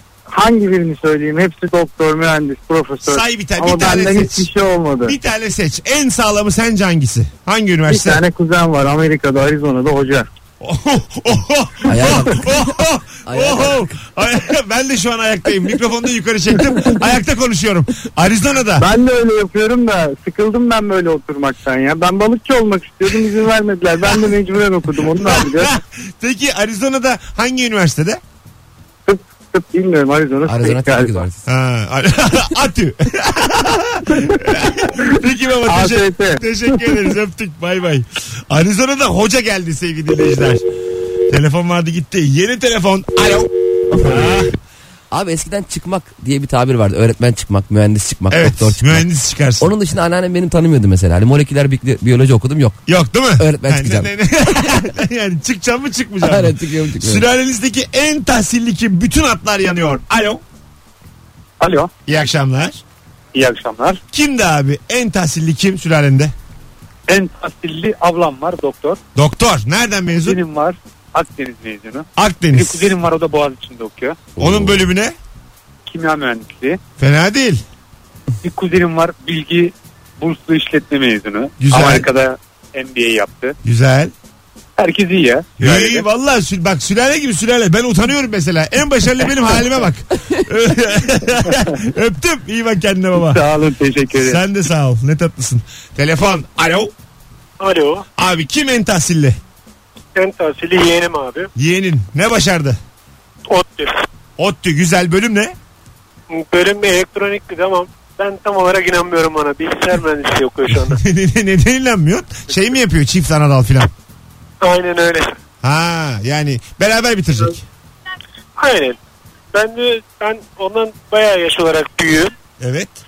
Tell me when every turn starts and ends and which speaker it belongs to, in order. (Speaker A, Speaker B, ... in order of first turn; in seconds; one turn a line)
Speaker A: 0.3-5.2
Speaker B: 3.0-4.5
Speaker B: 5.0-8.2
Speaker A: 7.9-10.3
Speaker B: 10.6-18.9
Speaker C: 11.9-12.7
Speaker C: 13.3-13.9
Speaker A: 18.8-25.7
Speaker B: 25.2-28.2
Speaker A: 29.1-31.2
Speaker C: 30.4-31.4
Speaker B: 31.5-40.6
Speaker A: 35.6-37.1
Speaker B: 41.3-44.6
Speaker C: 45.1-49.0
Speaker B: 48.3-49.7
Speaker C: 49.6-52.8
Speaker B: 52.9-60.4
Speaker C: 53.4-54.1
Speaker C: 56.2-57.3
Speaker D: 61.6-61.9
Speaker B: 62.1-62.8
Speaker D: 63.3-64.0
Speaker B: 64.1-66.3
Speaker D: 67.1-69.0
Speaker B: 69.2-70.4
Speaker D: 70.2-74.3
Speaker B: 72.2-72.9
Speaker C: 74.4-74.8
Speaker B: 74.4-75.2
Speaker D: 75.9-76.8
Speaker B: 77.0-77.6
Speaker D: 78.4-83.5
Speaker B: 81.6-82.1
Speaker B: 83.6-84.1
Speaker D: 84.8-86.0
Speaker B: 85.6-93.4
Speaker A: 93.2-94.4
Speaker B: 94.1-96.9
Speaker E: 97.6-98.0
Speaker B: 98.2-99.4
Speaker E: 100.2-101.5
Speaker B: 101.6-102.8
Speaker E: 103.5-104.0
Speaker B: 104.4-105.5
Speaker E: 106.3-111.0
Speaker B: 110.9-113.9
Speaker E: 114.6-115.3
Speaker B: 115.6-117.6
Speaker E: 118.6-119.0
Speaker E: 119.5-122.3
Speaker B: 122.6-123.0